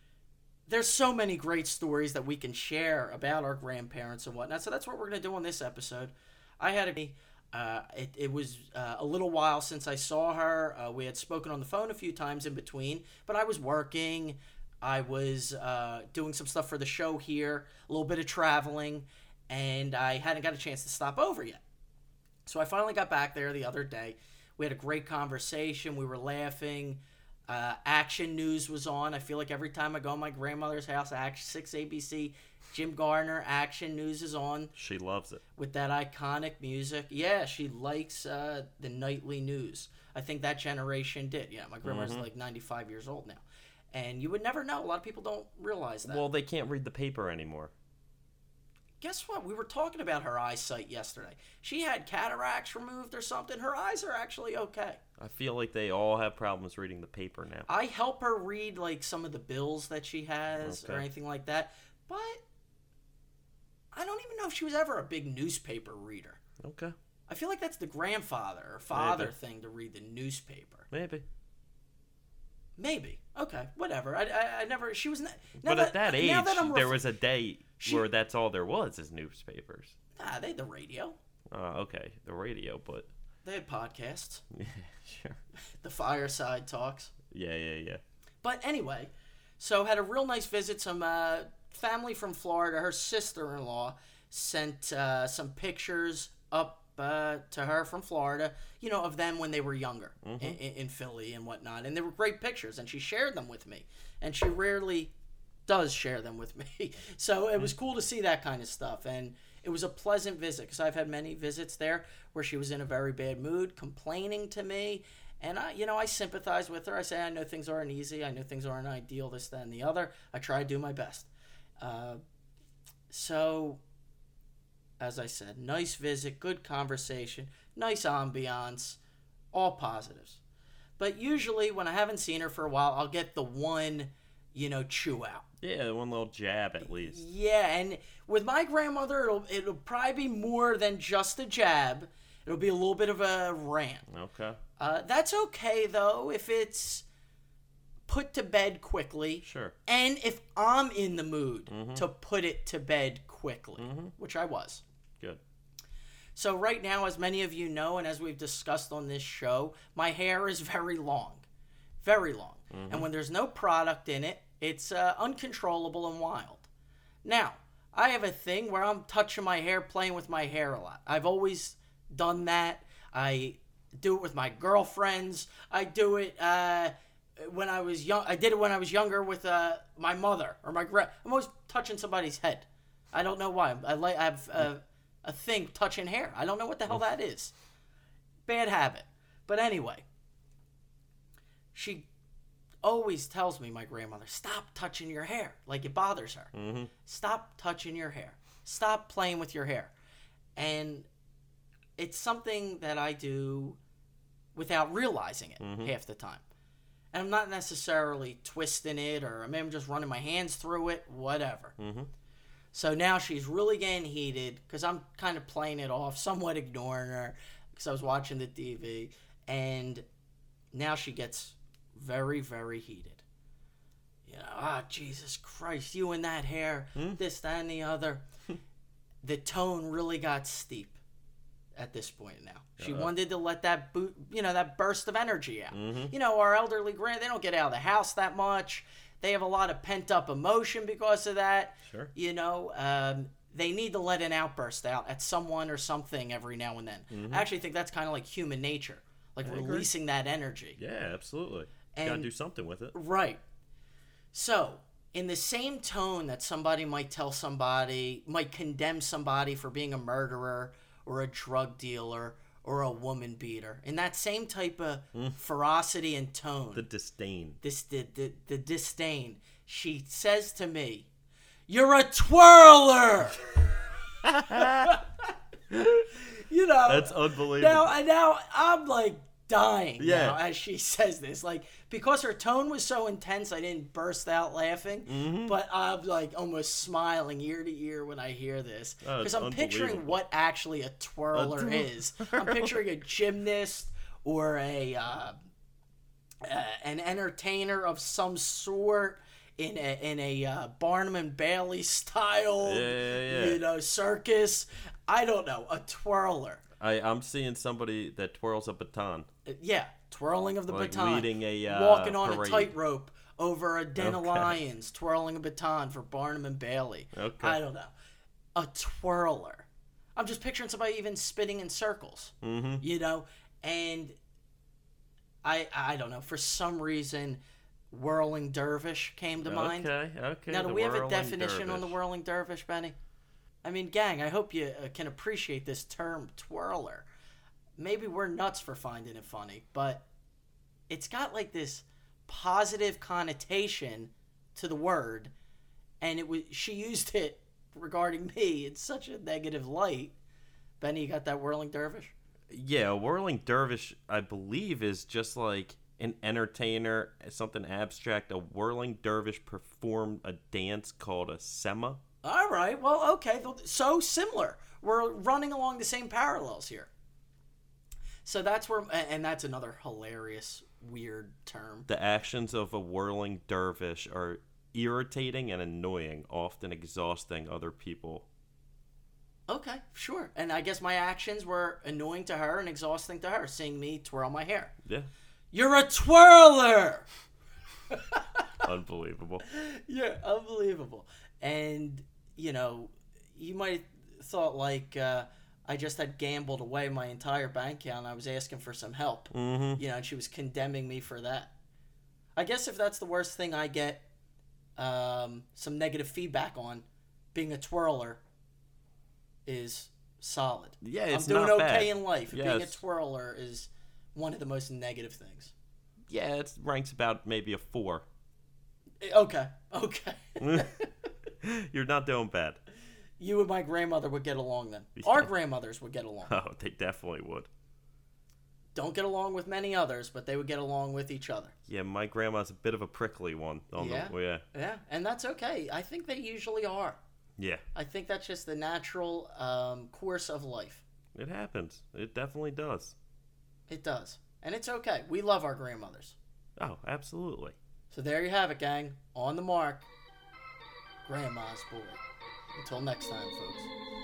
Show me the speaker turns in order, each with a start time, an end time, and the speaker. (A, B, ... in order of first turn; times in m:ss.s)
0:00.7-0:21.6 A
0:22.4-0:34.7 A
0:34.7-0:35.4 B
0:35.6-0:46.2 A
0:41.8-0:42.3 B
0:46.0-0:47.7 B
0:49.0-0:55.0 A
0:55.2-0:57.7 B
0:57.7-1:02.4 A
1:00.6-1:01.0 B
1:03.9-1:06.4 A
1:06.6-1:07.0 B
1:07.3-1:10.9 A
1:08.9-1:09.3 B
1:10.9-1:11.2 B
1:12.8-1:17.0 A
1:15.6-1:19.9 B
1:17.8-1:18.0 A
1:20.2-1:21.2 A
1:21.5-1:23.1 B
1:23.4-1:24.4 A
1:24.5-1:25.4 B
1:25.8-1:27.1 A
1:27.3-1:28.0 B
1:28.4-1:45.1 A
1:40.2-1:40.6 B
1:45.7-2:02.2 A
2:03.1-2:03.8 A
2:05.0-2:09.0 A
2:09.5-2:10.4 A
2:11.0-2:15.4 A
2:15.6-2:17.2 B
2:16.8-2:24.0 A
2:24.1-2:24.6 B
2:24.8-2:27.0 A
2:28.1-2:34.8 A
2:29.4-2:29.8 B
2:31.7-2:32.0 B
2:33.8-2:34.1 B
2:36.3-2:41.4 A
2:42.0-2:46.7 A
2:42.7-2:43.1 B
2:47.2-3:07.5 A
3:08.4-3:10.0 A
3:11.7-3:12.1 A
3:12.8-3:16.5 A
3:16.5-3:16.9 B
3:17.0-3:19.9 A
3:20.6-3:21.1 A
3:22.0-3:23.8 A
3:24.5-3:26.4 A
3:25.6-3:25.9 B
3:27.1-3:31.8 A
3:31.8-3:32.1 B
3:32.7-3:40.0 A
3:40.7-3:43.2 A
3:44.2-3:48.2 A
3:49.2-3:51.0 A
3:51.7-4:10.8 A
3:52.8-3:53.1 B
3:55.7-3:56.1 B
4:01.8-4:02.1 B
4:07.1-4:07.4 B
4:09.4-4:09.9 B
4:10.8-4:12.9 B
4:11.9-4:12.3 A
4:12.9-4:13.4 A
4:14.3-4:26.8 A
4:26.7-4:27.6 B
4:27.6-4:31.1 A
4:31.7-4:33.6 A
4:34.2-4:34.9 B
4:34.5-4:35.1 A
4:35.7-4:36.1 B
4:36.2-4:55.3 A
4:36.8-4:37.9 B
4:40.0-4:40.4 B
4:45.1-4:45.6 B
4:49.0-4:50.2 B
4:51.3-4:52.8 B
4:56.4-5:06.6 A
5:02.6-5:03.6 B
5:06.8-5:09.3 B
5:09.5-5:17.9 A
5:10.7-5:12.7 B
5:14.0-5:14.6 B
5:17.1-5:17.6 B
5:18.5-5:24.1 A
5:22.4-5:22.8 B
5:25.4-5:29.9 A
5:29.4-5:32.0 B
5:30.5-5:32.9 A
5:33.6-5:37.1 A
5:37.8-5:40.0 A
5:40.9-5:45.3 A
5:46.0-5:50.1 A
5:50.8-5:52.1 A
5:52.5-6:02.0 B
6:02.2-6:06.9 A
6:08.2-6:11.9 A
6:11.9-6:18.2 B
6:19.5-6:24.7 A
6:25.5-6:27.1 A
6:27.9-6:28.5 A
6:28.6-6:29.4 B
6:29.5-6:41.5 A
6:39.3-6:39.8 B
6:42.4-6:44.0 A
6:44.8-6:48.2 A
6:49.4-6:55.5 A
6:50.8-6:52.8 B
6:56.1-6:58.0 B
6:59.0-7:00.9 A
7:00.4-7:00.7 B
7:01.4-7:02.6 B
7:03.2-7:06.3 A
7:05.0-7:05.3 B
7:06.2-7:07.5 B
7:08.7-7:11.5 A
7:11.7-7:14.4 B
7:13.8-7:17.0 A
7:17.4-7:17.6 B
7:17.7-7:20.8 A
7:21.1-7:22.9 B
7:23.7-7:26.2 A
7:26.6-7:27.6 B
7:27.9-7:29.9 A
7:31.0-7:32.0 A
7:32.5-7:33.7 A